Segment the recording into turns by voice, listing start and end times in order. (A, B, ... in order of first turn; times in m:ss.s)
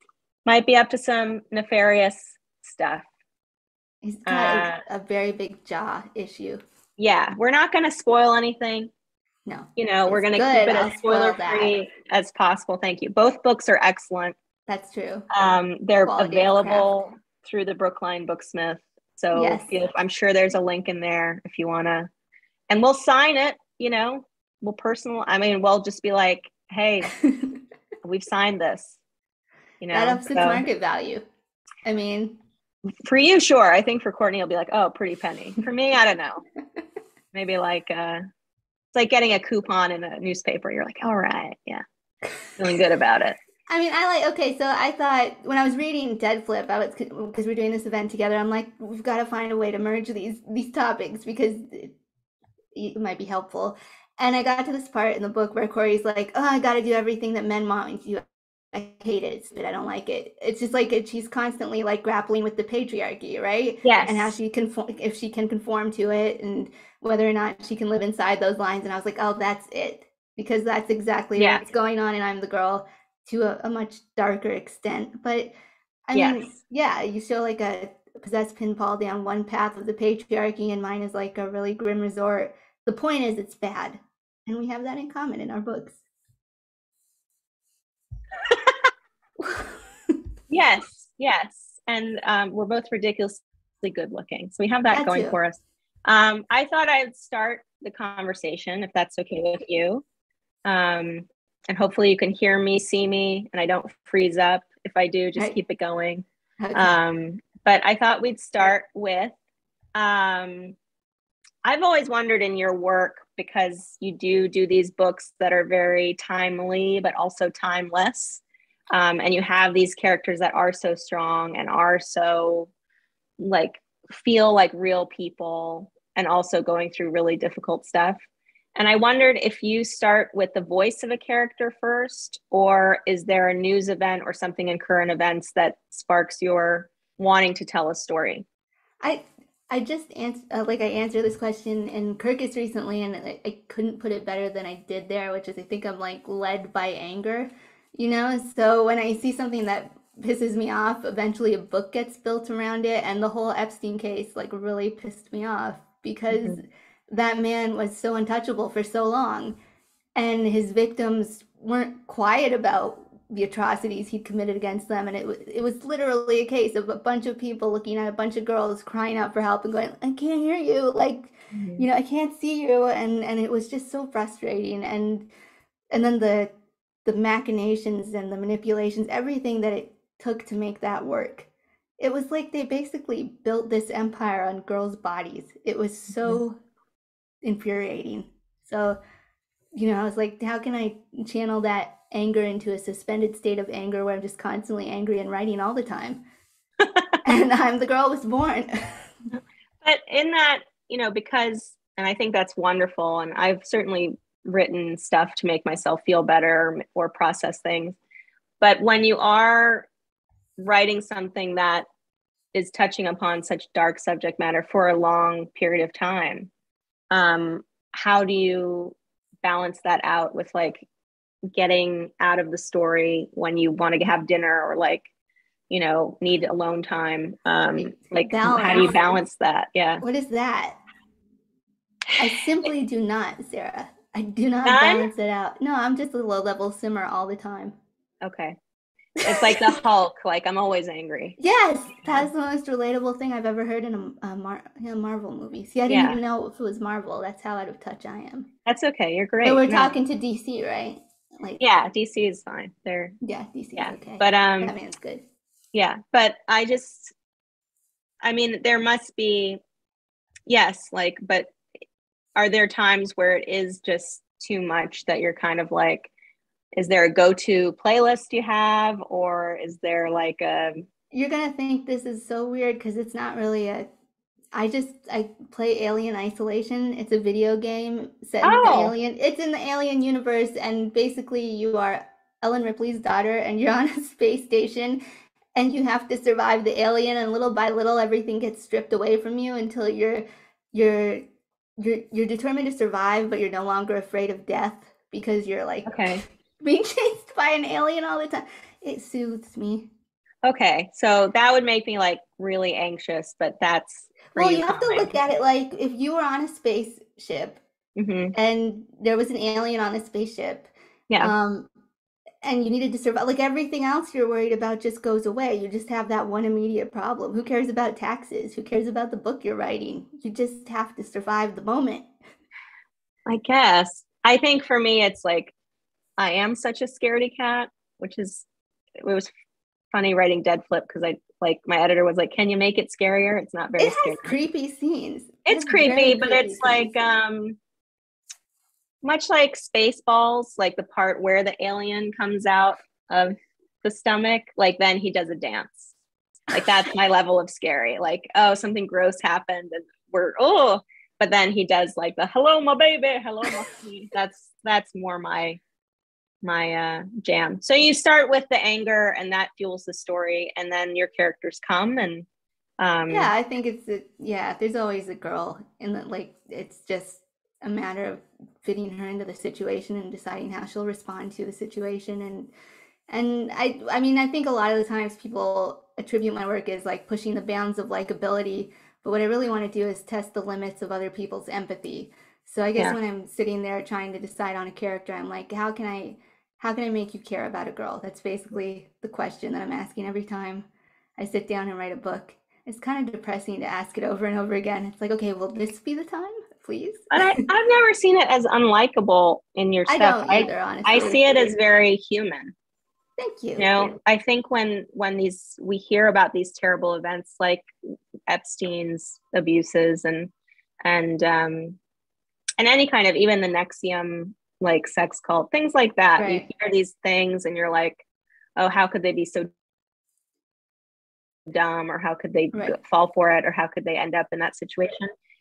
0:00.4-0:03.1 A
0:04.0-0:06.6 B
0:04.2-0:04.8 A
0:07.0-0:08.9 A
0:09.4-0:11.8 B
0:09.8-0:14.4 A
0:14.7-0:15.3 B
0:15.3-0:22.1 A
0:16.0-0:16.9 B
0:19.3-0:19.7 B
0:22.7-0:27.1 A
0:27.2-0:27.5 B
0:28.0-0:29.0 A
0:29.8-0:30.6 A
0:29.9-0:31.2 B
0:31.8-0:32.4 B
0:33.0-0:36.4 A
0:37.3-0:38.2 A
0:38.9-0:41.8 A
0:42.6-0:43.4 A
0:43.7-0:51.9 B
0:52.7-1:15.5 B
1:03.8-1:04.3 A
1:11.4-1:11.6 A
1:16.1-1:26.0 B
1:16.1-1:16.5 A
1:29.4-1:29.7 B
1:30.5-1:40.0 A
1:34.9-1:35.4 B
1:40.6-1:49.3 A
1:46.6-1:47.0 B
1:49.9-1:50.8 A
1:51.6-2:02.7 A
2:03.4-2:08.2 A
2:08.8-2:18.4 A
2:19.0-2:39.6 B
2:36.3-2:36.6 A
2:40.2-2:55.3 B
2:51.5-2:51.8 A
2:55.9-2:56.5 B
2:57.0-3:01.5 B
3:02.0-3:06.6 B
3:07.4-3:09.0 B
3:09.7-3:16.2 B
3:17.2-3:19.0 B
3:19.8-3:28.0 A
3:28.6-3:29.9 A
3:30.6-3:31.9 A
3:32.5-3:36.5 A
3:37.1-3:40.8 A
3:41.5-3:45.0 A
3:45.7-3:50.0 A
3:48.1-3:49.0 B
3:50.0-3:50.8 B
3:52.2-3:57.7 B
3:54.6-3:55.1 A
3:58.2-3:58.6 A
3:59.2-4:01.4 A
3:59.2-3:59.6 B
4:01.4-4:08.5 B
4:05.9-4:06.2 A
4:08.6-4:10.0 A
4:09.4-4:11.6 B
4:11.6-4:13.2 A
4:13.2-4:15.2 B
4:13.8-4:14.7 A
4:15.7-4:17.1 A
4:18.2-4:19.6 A
4:20.5-4:21.5 A
4:22.4-4:26.1 A
4:26.7-4:30.8 A
4:31.1-4:33.9 B
4:34.5-4:45.0 B
4:38.4-4:38.9 A
4:45.5-4:51.2 B
4:51.8-4:59.9 B
4:55.8-4:56.2 A
5:00.4-5:05.1 A
5:04.3-5:07.6 B
5:08.0-5:08.3 A
5:08.3-5:11.7 B
5:12.4-5:22.1 B
5:23.2-5:25.5 A
5:26.2-5:28.4 A
5:29.0-5:29.3 A
5:29.9-5:34.3 A
5:33.8-5:36.9 B
5:35.4-5:37.6 A
5:39.0-5:45.9 A
5:46.5-5:55.6 A
5:56.4-6:02.2 A
6:02.8-6:03.3 A
6:03.1-6:12.5 B
6:13.1-6:30.6 B
6:31.2-6:37.1 B
6:37.1-6:42.5 A
6:39.9-6:41.2 B
6:43.2-6:44.0 B
6:43.6-6:47.7 A
6:48.3-6:50.3 A
6:50.8-6:51.8 A
6:52.6-6:58.0 A
6:56.2-6:56.4 B
6:58.6-6:59.5 A
7:01.5-7:05.1 A